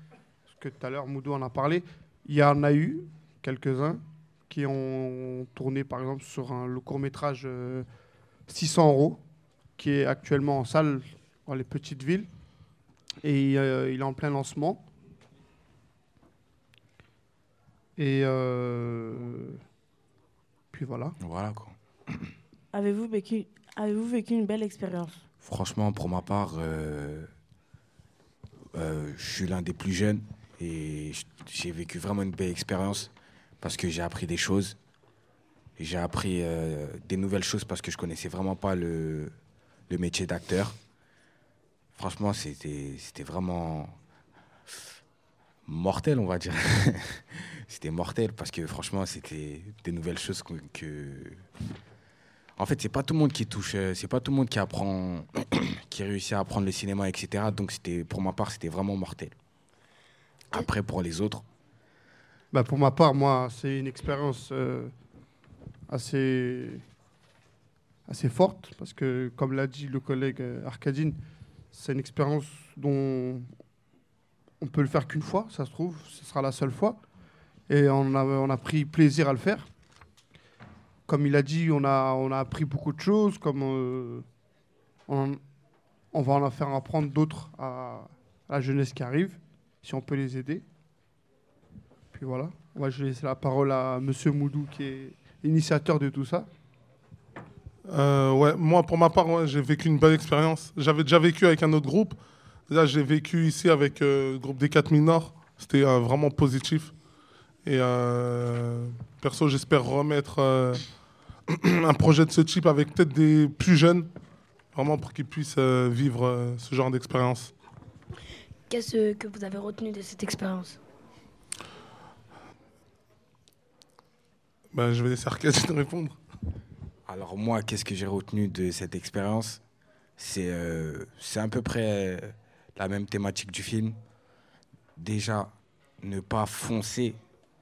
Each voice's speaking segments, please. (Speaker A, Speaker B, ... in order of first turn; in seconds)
Speaker A: 0.5-7.8, 8.5-9.2, 9.8-12.3, 13.2-14.8, 18.0-19.6, 20.7-21.1, 62.5-64.9, 65.9-66.8, 68.1-71.2, 71.7-73.5, 74.6-77.0, 77.7-79.7, 81.1-84.2, 85.1-85.4, 86.1-90.6, 92.1-96.5
Speaker B: 21.2-22.3, 25.4-27.3, 28.7-34.8, 35.8-39.3, 39.9-40.8, 41.9-44.0, 45.6-51.4, 52.6-59.3, 60.5-61.4, 127.0-129.6, 130.2-134.0, 135.0-137.2
Speaker C: 22.7-25.1
Speaker D: 97.9-102.2, 102.7-106.9, 107.6-110.8, 111.5-114.1, 114.7-117.5, 124.7-126.2
Speaker E: 118.7-120.8